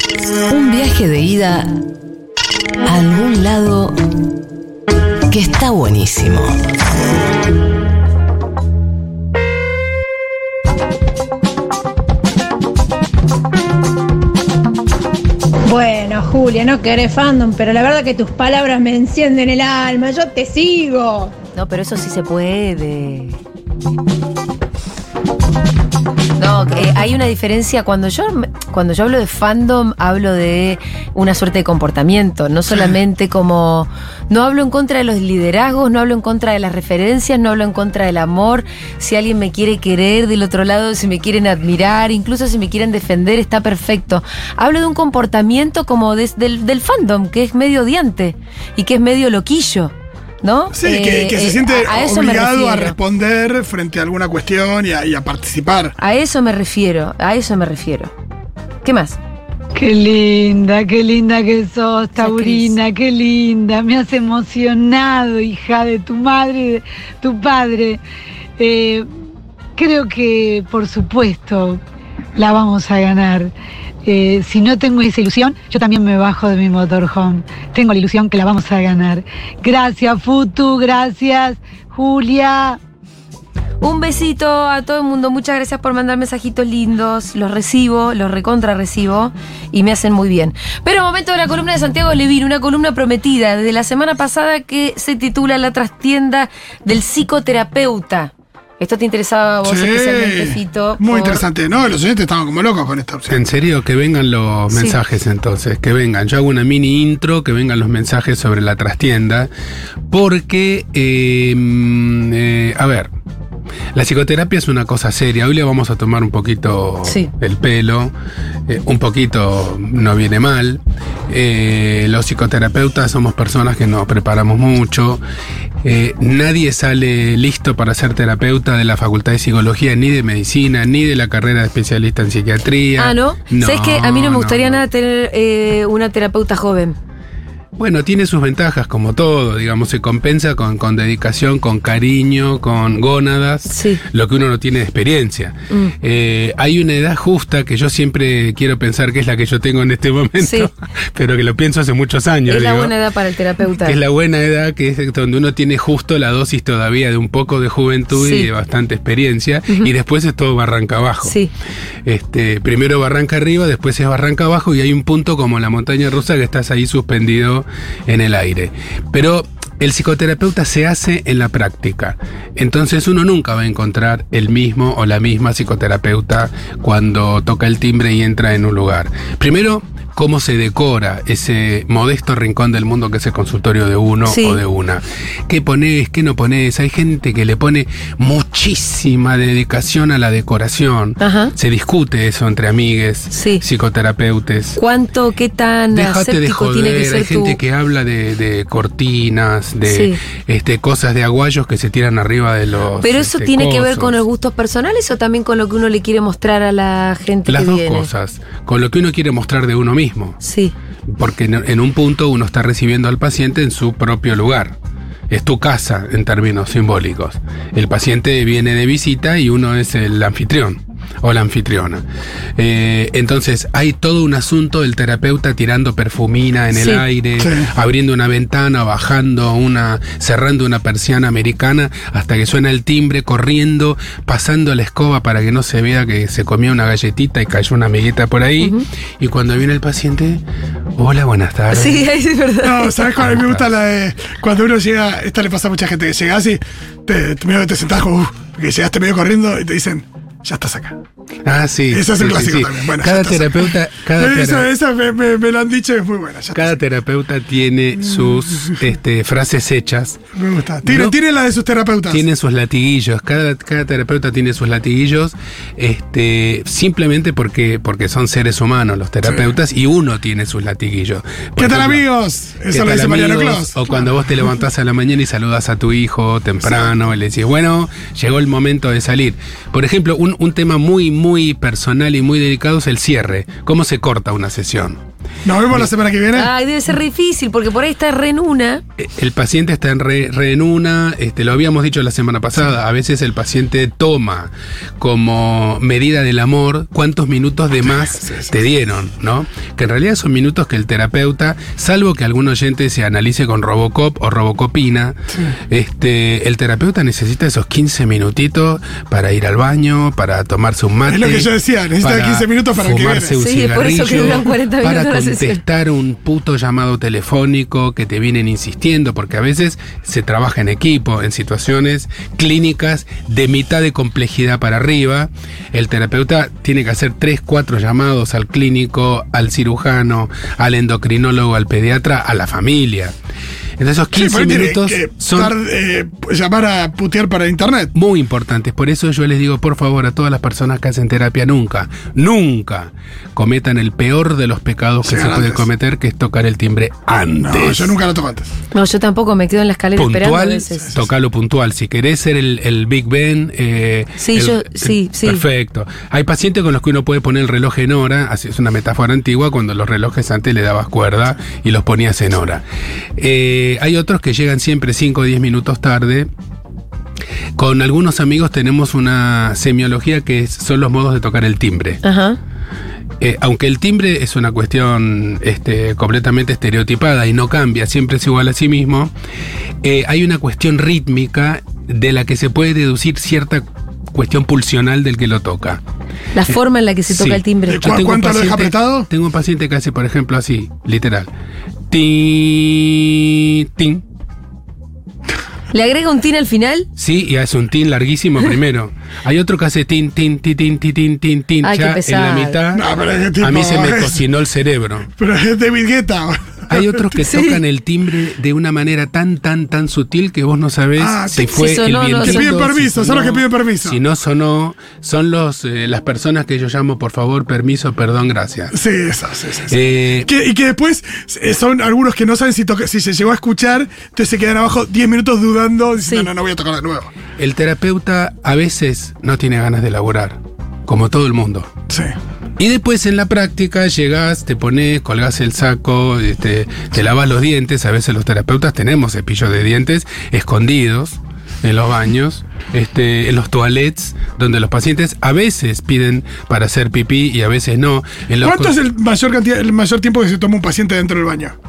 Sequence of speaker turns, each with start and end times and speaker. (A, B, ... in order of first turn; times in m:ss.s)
0:00.5-0:01.7 A
0:02.8-0:04.0 A
0:05.3-0:06.6 A
0:15.7-0:21.3 B
0:21.5-0:23.4 C
0:26.4-0:53.0 C
0:50.7-0:56.0 D
0:56.0-0:58.1 C
0:58.8-0:59.2 C
0:59.7-1:08.0 E
1:02.2-1:02.7 C
1:08.6-1:09.1 E
1:09.8-1:11.8 E
1:12.4-1:13.5 E
1:14.0-1:22.8 E
1:23.8-1:41.4 C
1:39.6-1:43.3 D
1:43.3-1:49.5 F
1:44.7-1:45.0 C
1:50.1-1:53.1 F
1:53.9-1:58.1 F
1:57.0-1:57.3 C
1:58.7-2:05.2 F
2:05.8-2:14.8 F
2:13.0-2:17.0 C
2:17.8-2:32.9 F
2:23.7-2:24.0 C
2:30.4-2:30.7 C
2:32.5-2:34.0 C
2:33.8-2:41.4 F
2:38.1-2:38.5 C
2:41.2-2:41.5 C
2:42.0-3:14.8 F
3:04.2-3:04.6 C
3:11.2-3:11.5 C
3:13.3-3:13.6 C
3:14.8-3:17.6 C
3:15.9-3:24.2 F
3:19.9-3:20.2 C
3:23.0-3:28.1 C
3:27.5-3:30.4 F
3:30.4-3:30.7 C
3:31.1-3:34.8 F
3:35.3-3:42.0 F
3:42.6-4:00.4 F
3:46.7-3:47.0 C
3:47.4-3:47.7 D
4:01.0-4:02.1 F
4:01.7-4:03.0 C
4:02.6-4:11.0 D
4:03.2-4:03.7 F
4:11.4-4:14.7 F
4:11.9-4:16.8 D
4:16.5-4:20.2 F
4:20.4-4:22.2 D
4:20.8-4:21.2 F
4:22.1-4:32.0 F
4:29.2-4:29.5 D
4:31.6-4:33.9 D
4:32.7-4:45.0 F
4:36.6-4:36.9 D
4:45.4-4:46.5 D
4:46.3-4:48.8 C
4:49.0-5:05.2 F
4:58.2-4:58.5 D
5:05.7-5:33.1 F
5:11.1-5:13.4 D
5:13.4-5:15.6 C
5:33.8-5:35.6 F
5:34.1-5:37.9 D
5:37.9-5:47.9 F
5:45.0-5:45.6 D
5:47.4-5:48.5 D
5:48.7-5:50.9 C
5:50.0-6:02.6 F
5:54.2-5:55.4 C
6:03.2-6:06.3 F
6:07.6-6:12.0 F
6:12.0-6:12.4 C
6:13.2-6:19.1 F
6:19.8-6:25.8 F
6:26.3-6:27.9 C
6:26.5-6:31.3 F
6:27.7-6:29.1 D
6:31.9-6:34.0 F
6:35.7-6:36.9 C
6:37.0-6:45.1 F
6:41.6-6:42.6 C
6:42.7-6:44.2 D
6:45.2-6:47.1 D
6:46.7-6:58.8 F
6:47.2-6:47.6 C
6:51.0-6:51.6 D
6:51.5-6:52.6 C
6:52.2-6:54.0 D
6:58.7-7:07.1 D
6:59.7-7:00.3 F
7:07.4-7:11.7 F
7:11.9-7:12.1 D
7:12.6-7:28.8 F
7:28.4-7:31.6 D